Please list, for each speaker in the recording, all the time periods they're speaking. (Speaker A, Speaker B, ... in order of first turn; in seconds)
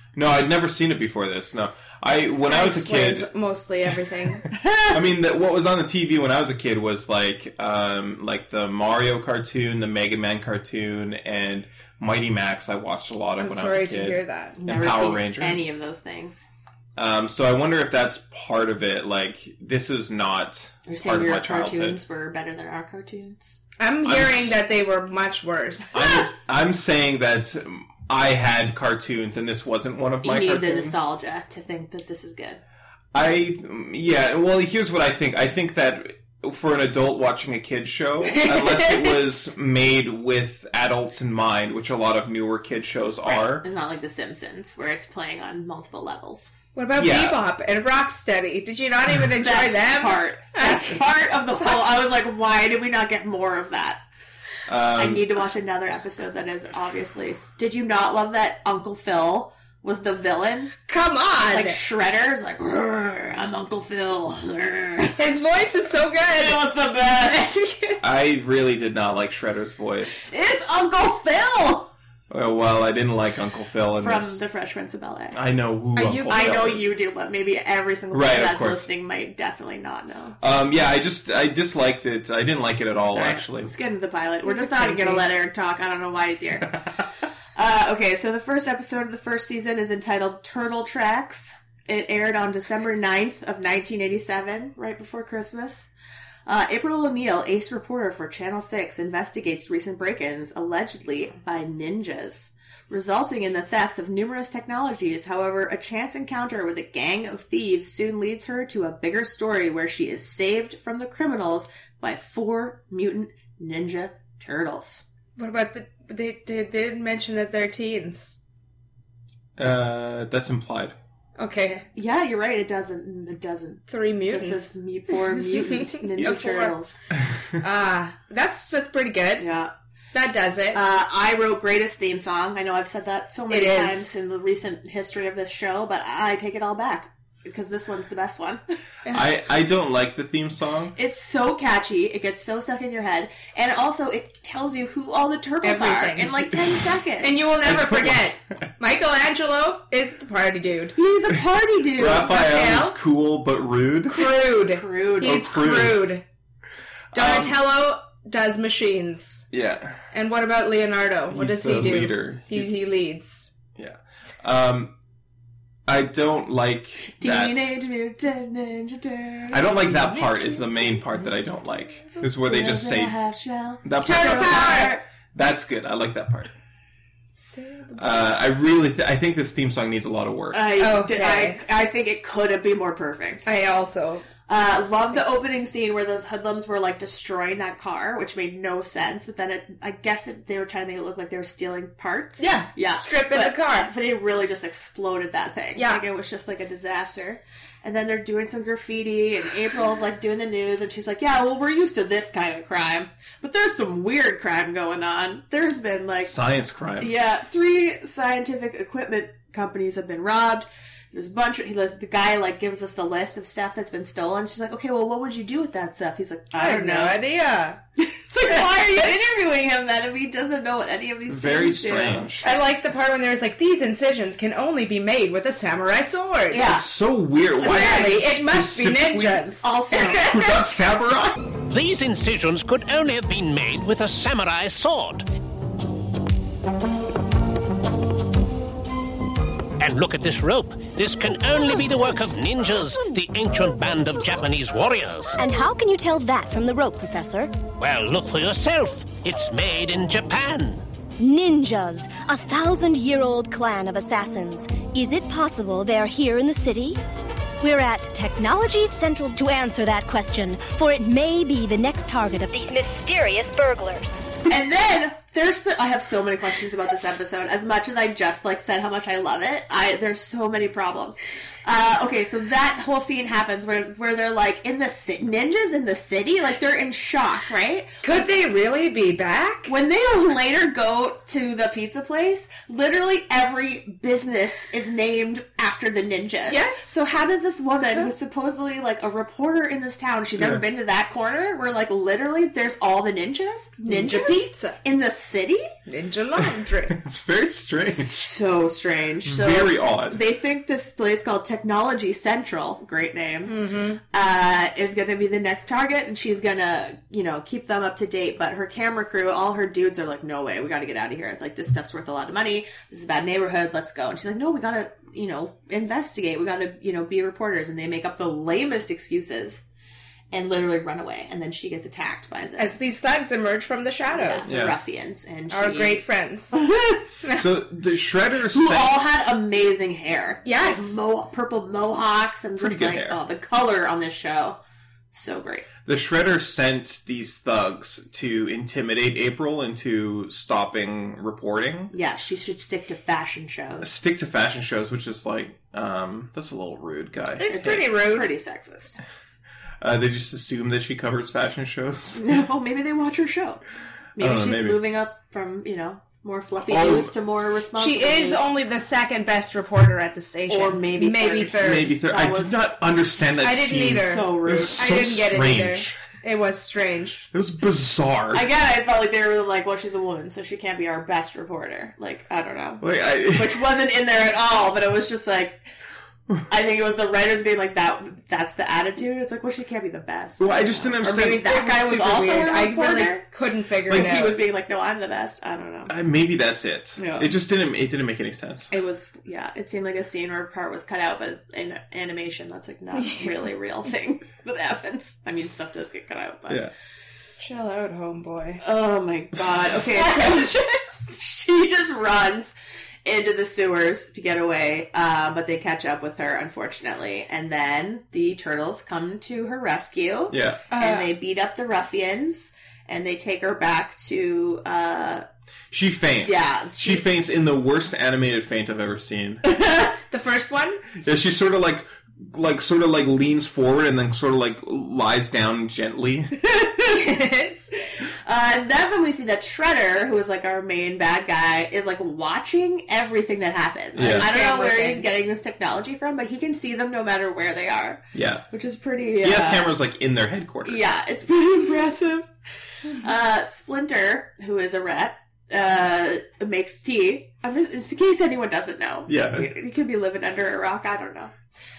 Speaker A: 0.1-3.3, 4.9-15.7, 17.0-22.0, 24.1-24.6, 25.9-31.1, 33.1-43.7, 47.0-47.4, 54.7-55.3, 68.0-70.3, 72.3-74.4, 75.3-77.0, 78.1-78.9, 80.4-83.7, 119.6-121.0, 139.1-140.9, 147.6-148.6, 152.0-154.5, 155.2-156.1, 157.1-157.6, 159.5-160.0, 161.3-162.8, 163.8-164.9, 165.9-167.7, 169.5-173.2, 173.8-176.5, 178.0-180.8, 206.2-207.2, 221.3-222.5, 226.6-231.5, 290.3-290.6, 296.4-298.3, 299.2-300.2, 324.5-324.8, 327.3-329.0, 332.6-333.2, 335.9-341.9, 343.8-347.9, 349.8-352.4, 354.2-354.8, 356.7-357.1, 361.6-366.0, 367.3-368.5, 372.8-373.7, 380.4-381.4, 383.9-384.1, 385.9-388.7, 410.3-410.6, 415.7-419.4, 421.0-426.4, 433.9-434.3, 438.1-438.4, 439.2-440.8, 449.1-449.5
Speaker B: 2.5-4.5, 13.4-14.6, 23.8-26.0, 46.8-51.0, 60.9-61.8, 65.2-66.7, 67.5-68.0, 76.0-76.6, 84.5-85.3, 115.4-118.4, 121.4-121.9, 123.9-124.7, 125.5-126.7, 127.6-129.5, 130.1-130.8, 133.5-134.1, 145.6-146.5, 147.2-151.0, 152.2-153.0, 154.1-156.2, 157.1-159.5, 160.1-163.5, 174.0-175.0, 177.6-178.4, 180.8-181.6, 183.4-184.3, 192.4-193.9, 195.8-196.0, 216.6-217.8, 218.5-219.0, 222.4-226.6, 227.6-229.7, 278.0-279.7, 286.5-287.0, 293.8-294.8, 295.9-297.0, 303.5-304.0, 322.6-324.5, 325.5-326.6, 330.4-331.0, 347.4-348.3, 357.8-361.9, 363.4-367.3, 381.4-384.4, 393.0-393.3, 397.4-398.6, 400.0-400.9, 410.7-411.1, 420.1-420.8, 426.9-427.7, 434.0-435.1
Speaker C: 4.5-5.0, 14.6-16.5, 20.9-23.6, 30.2-32.6, 43.3-46.5, 49.4-54.0, 55.0-60.7, 61.4-65.2, 66.3-67.6, 70.3-71.9, 74.0-75.4, 76.3-80.4, 83.2-86.8, 87.6-95.9, 96.5-115.0, 122.0-127.0, 129.4-129.7, 130.7-138.6, 141.0-147.5, 151.0-152.3, 154.6-155.5, 167.2-170.6, 172.2-175.0, 180.5-183.5, 184.5-206.3, 207.0-217.2, 218.0-222.4, 226.5-226.9, 227.6-228.1, 229.6-230.6, 264.5-277.9, 279.7-295.7, 297.9-303.6, 304.1-319.6, 320.3-322.8, 324.1-326.0, 326.5-327.1, 328.5-334.6, 335.1-335.7, 341.9-343.9, 347.5-349.0, 352.2-353.6, 354.2-358.5, 360.5-362.8, 363.9-364.9, 368.3-375.6, 376.5-383.2, 383.9-385.9, 387.0-387.3, 388.7-396.7, 398.6-415.2, 416.2-417.1, 419.5-419.9, 428.2-439.7, 440.7-442.3, 443.0-451.3
Speaker D: 231.7-235.3, 239.8-245.4, 247.8-250.8
Speaker E: 245.4-247.5, 251.2-257.0, 257.6-264.2